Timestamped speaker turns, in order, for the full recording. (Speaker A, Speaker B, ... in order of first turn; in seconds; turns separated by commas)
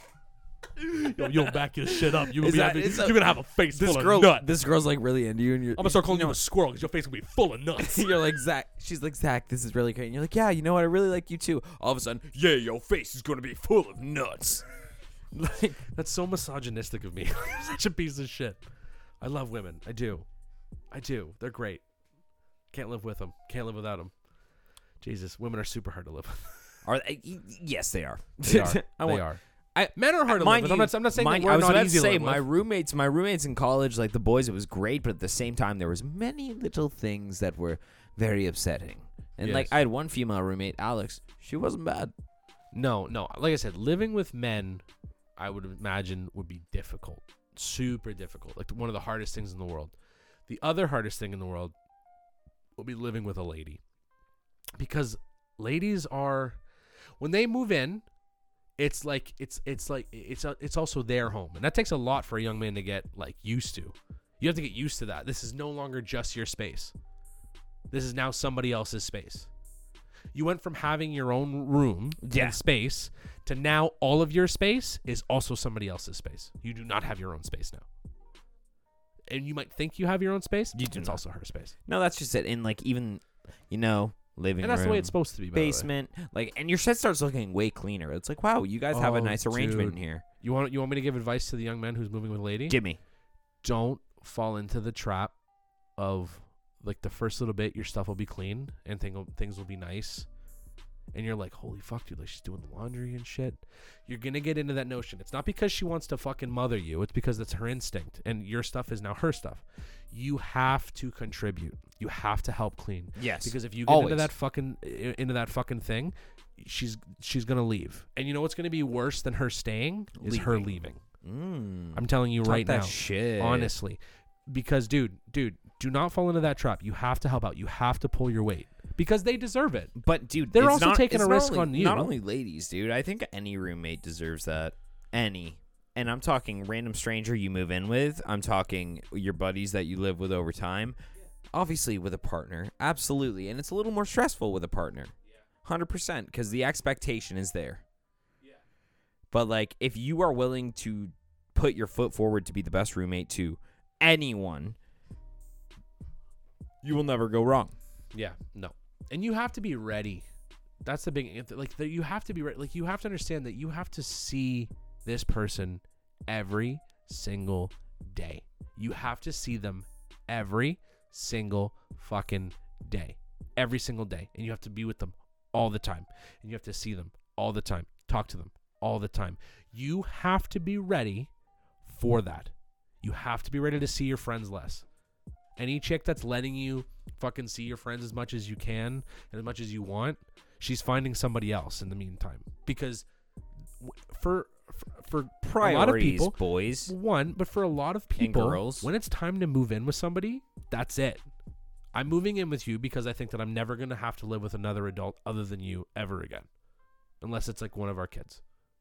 Speaker A: 0.8-4.5, Speaker B: 1.2-6.4, Speaker A: 5.8-8.1, Speaker B: 7.8-14.6, Speaker B: 15.3-15.8, Speaker A: 15.9-18.6, Speaker A: 19.2-20.2, Speaker A: 20.9-21.8, Speaker A: 22.7-24.1, Speaker A: 25.0-26.7, Speaker B: 26.8-42.1, Speaker A: 28.4-29.4, Speaker A: 29.9-32.4, Speaker A: 39.4-39.8, Speaker A: 42.7-44.8, Speaker A: 45.4-49.9, Speaker A: 50.5-51.7, Speaker A: 52.8-53.8, Speaker A: 54.8-56.6, Speaker A: 57.2-58.0, Speaker A: 58.8-66.9, Speaker A: 67.9-69.5, Speaker A: 70.3-77.8, Speaker B: 72.2-72.6, Speaker A: 79.3-81.7, Speaker B: 80.7-81.2, Speaker B: 81.8-90.2, Speaker A: 84.6-85.9, Speaker A: 88.9-92.8, Speaker B: 92.7-93.0, Speaker A: 93.6-95.3, Speaker A: 96.0-100.3, Speaker A: 101.1-121.0, Speaker B: 113.2-114.3, Speaker B: 120.2-123.7, Speaker A: 121.9-129.9, Speaker B: 129.9-141.0, Speaker A: 130.5-132.1, Speaker B: 141.5-147.8, Speaker B: 149.3-154.8, Speaker B: 156.8-157.8, Speaker A: 158.1-160.2, Speaker A: 160.8-181.3, Speaker A: 181.8-184.8, Speaker A: 185.6-193.0, Speaker A: 193.8-201.2, Speaker B: 195.4-196.9, Speaker B: 198.2-198.9, Speaker A: 201.9-206.5, Speaker A: 207.2-208.4